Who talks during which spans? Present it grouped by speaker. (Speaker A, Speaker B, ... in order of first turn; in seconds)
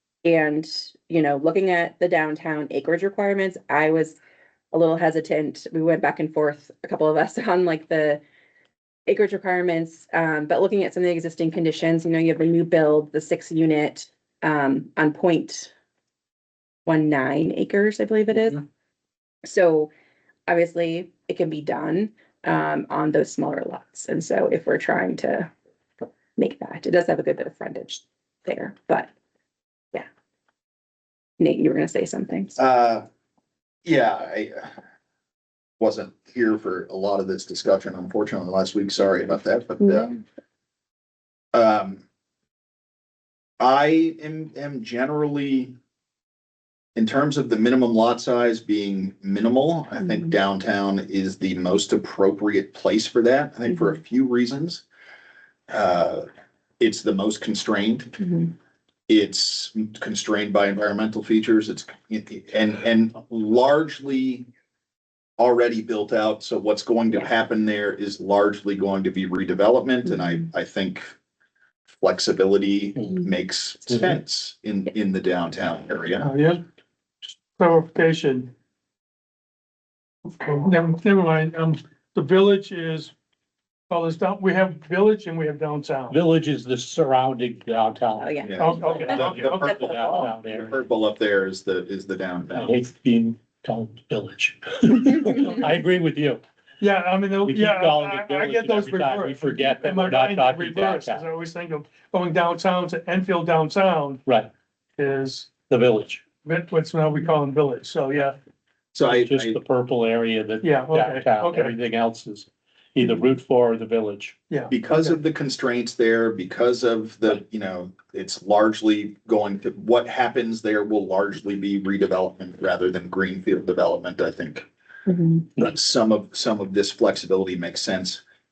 Speaker A: 0.2-4.2, 4.7-8.2, 9.1-15.7, 16.9-18.6, 19.4-19.9, 20.5-25.5, 26.4-29.1, 31.4-32.6, 39.9-40.1, 58.2-58.5, 88.2-89.2, 125.1-125.4
Speaker B: 32.6-33.0, 33.8-34.7, 35.8-40.1, 41.5-42.0, 43.6-45.7, 47.0-54.8, 55.7-56.2, 56.8-58.2, 59.1-64.5, 65.4-71.2, 71.9-76.2, 88.5-92.8, 108.9-109.6, 114.7-124.7, 125.6-128.2
Speaker C: 73.9-74.1, 86.1-90.8, 92.5-96.4, 97.4-101.2, 104.2-104.5, 105.7-106.2, 109.1-114.3
Speaker D: 76.2-76.6, 77.5-78.5, 80.4-83.1, 83.9-86.2, 88.6-89.7, 96.8-104.2, 105.0-105.5, 106.4-108.4, 110.6-111.8, 114.5-115.1